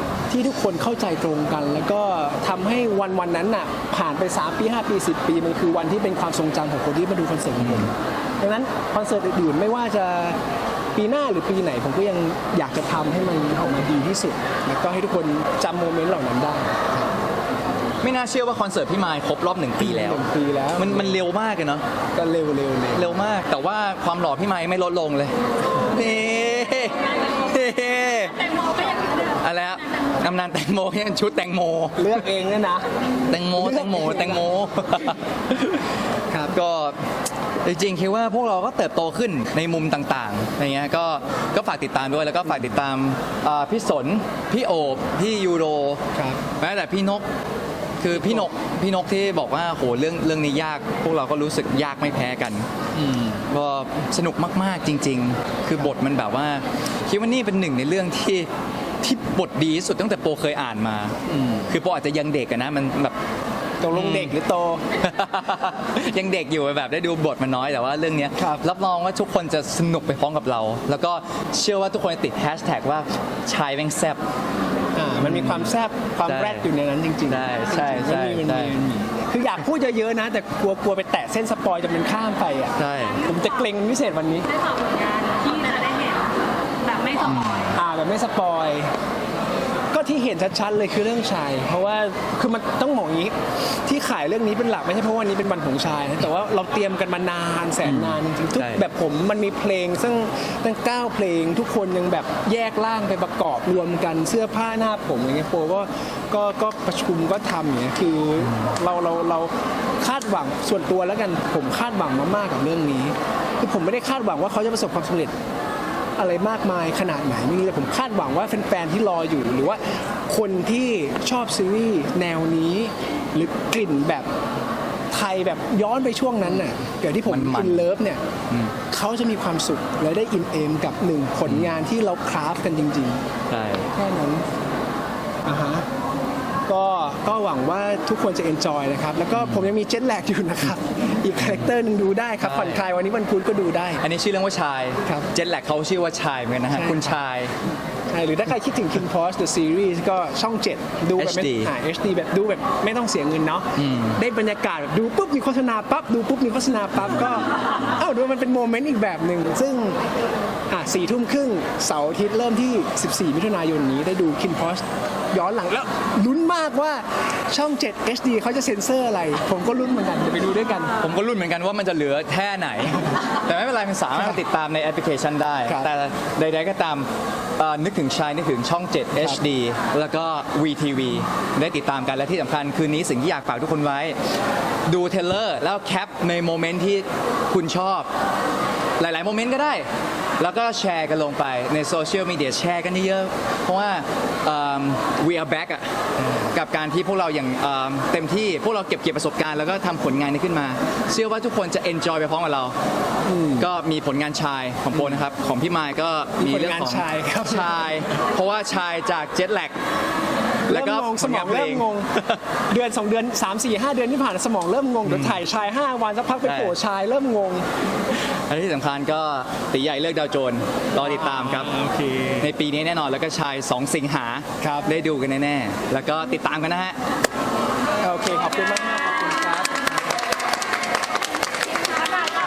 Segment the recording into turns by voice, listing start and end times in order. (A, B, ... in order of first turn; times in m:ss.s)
0:00.3-0:10.4 A
0:07.6-0:07.9 B
0:10.9-0:17.1 A
0:18.0-0:21.8 B
0:19.8-0:21.2 A
0:22.1-0:23.2 A
0:22.9-0:28.4 B
0:27.0-0:29.4 C
0:29.4-0:32.2 B
0:32.0-0:32.9 A
0:33.3-0:35.8 B
0:33.5-0:34.5 A
0:36.3-0:36.5 A
0:36.5-0:37.0 B
0:37.6-0:46.0 B
0:46.1-0:46.4 A
0:46.6-0:47.2 B
0:48.0-0:52.7 B
0:48.1-0:48.5 A
0:52.9-0:53.4 A
0:53.5-0:58.5 B
0:59.0-1:01.2 B
1:01.3-1:01.7 A
1:01.7-1:03.1 B
1:03.8-1:04.8 A
1:03.9-1:04.3 B
1:05.0-1:14.2 B
1:08.4-1:08.6 A
1:14.9-1:24.5 A
1:15.2-1:15.7 B
1:16.2-1:16.6 B
1:17.3-1:18.7 B
1:22.8-1:23.2 B
1:23.1-1:23.6 C
1:24.5-1:27.8 C
1:27.2-1:27.8 B
1:27.7-1:28.9 A
1:29.9-1:55.3 A
1:37.8-1:38.9 B
1:48.4-1:48.7 B
1:56.2-2:04.3 A
2:05.1-2:08.2 A
2:07.2-2:07.9 B
2:08.5-2:08.7 B
2:08.9-2:13.2 A
2:11.4-2:11.8 B
2:13.5-2:13.9 B
2:13.9-2:14.4 A
2:15.4-2:15.8 A
2:16.7-2:24.0 A
2:19.3-2:19.7 B
2:22.4-2:22.8 B
2:24.0-2:27.5 B
2:26.7-2:27.2 A
2:28.1-2:40.0 A
2:31.2-2:31.7 B
2:33.8-2:34.2 B
2:40.7-2:50.9 A
2:51.0-3:04.2 B
3:04.8-3:08.1 B
3:09.0-3:09.9 B
3:10.4-3:15.9 B
3:16.2-3:16.5 A
3:16.5-3:22.7 B
3:23.2-3:23.7 A
3:23.6-3:29.7 B
3:24.9-3:25.2 A
3:26.4-3:27.9 A
3:30.7-3:32.4 B
3:30.7-3:32.1 A
3:32.7-3:37.7 A
3:35.0-3:35.4 B
3:36.4-3:36.7 B
3:38.3-3:41.7 B
3:41.0-3:42.4 A
3:42.4-3:47.0 B
3:44.6-3:44.9 A
3:48.0-3:49.9 A